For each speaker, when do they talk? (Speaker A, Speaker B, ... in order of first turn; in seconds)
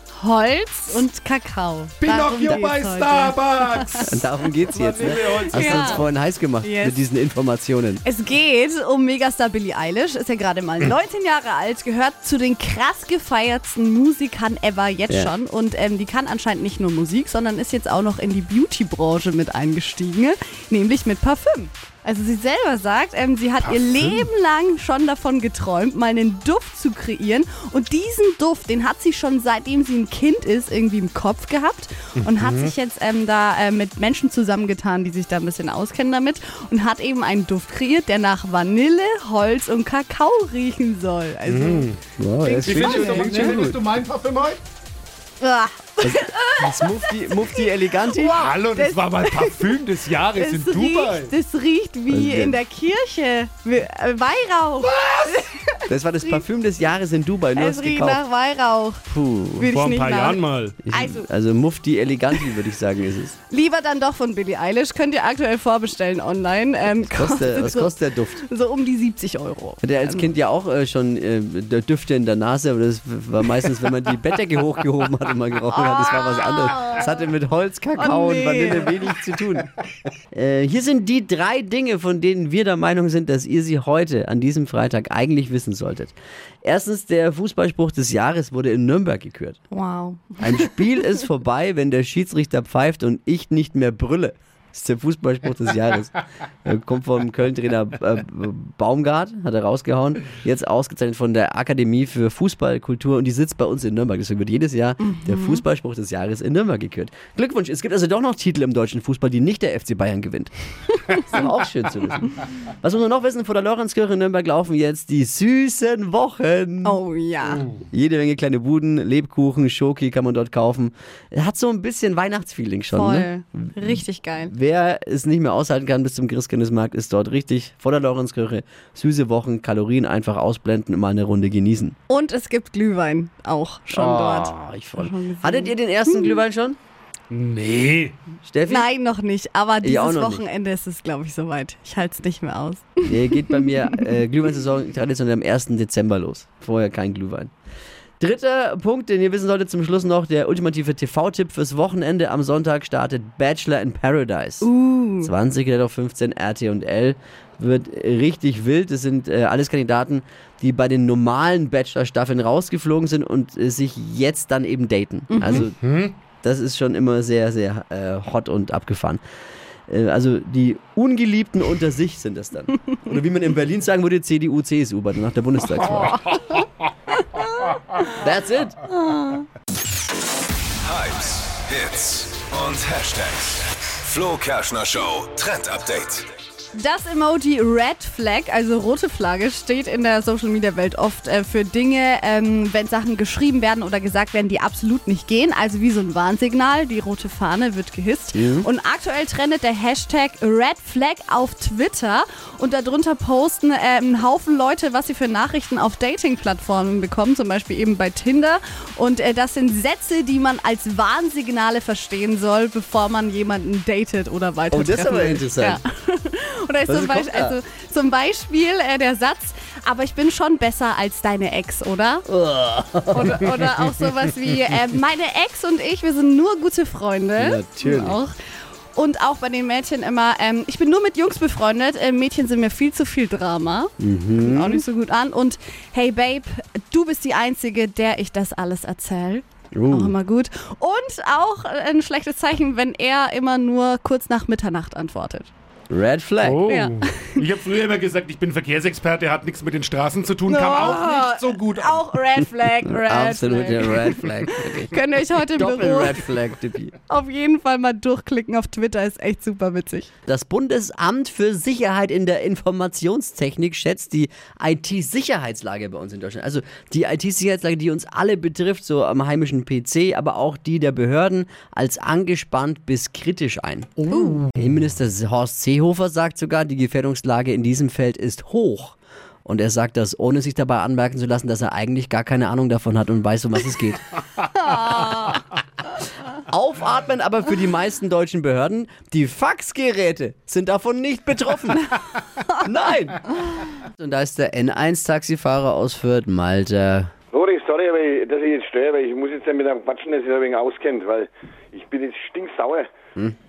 Speaker A: 0.2-4.2, 5.0-6.0, 6.6-7.0, 8.0-43.6, 45.4-47.4, 47.9-49.8, 50.3-56.4, 57.5-59.0, 59.6-61.3, 63.5-70.3, 75.7-77.1, 78.0-78.9, 89.7-90.7, 105.0-105.6, 116.8-117.7, 122.9-124.5, 132.1-136.4, 138.7-144.2, 154.6-155.3, 165.3-165.7, 176.1-176.6, 178.9-179.4, 186.7-222.2, 223.1-228.3, 228.9-245.5, 246.7-247.4, 250.5-256.3, 257.1-260.1, 274.1-274.4, 284.6-285.4
Speaker B: 2.0-6.0, 23.6-24.3, 32.2-32.7, 41.5-42.0, 42.6-44.6, 48.4-51.3, 59.7-60.8, 137.3-138.2, 165.6-166.1, 246.4-252.0
Speaker C: 4.0-8.0, 42.2-43.8, 46.0-48.5, 52.1-52.6, 55.9-58.2, 59.1-59.7, 60.8-63.4, 67.1-68.4, 69.8-79.7, 80.3-89.6, 90.4-110.5, 111.1-117.0, 117.7-131.9, 133.9-136.8, 138.4-138.9, 139.8-140.4, 143.0-147.5, 148.2-154.7, 155.2-165.8, 166.4-169.2, 169.9-176.2, 178.2-178.8, 198.3-198.7, 214.7-215.8, 216.8-217.6, 222.3-223.5, 227.3-228.2, 234.0-234.8, 239.7-240.2, 245.9-246.6, 252.9-256.9, 260.3-284.0, 286.4-291.9, 292.6-297.1
Speaker D: 180.8-186.3
Speaker E: 297.3-302.9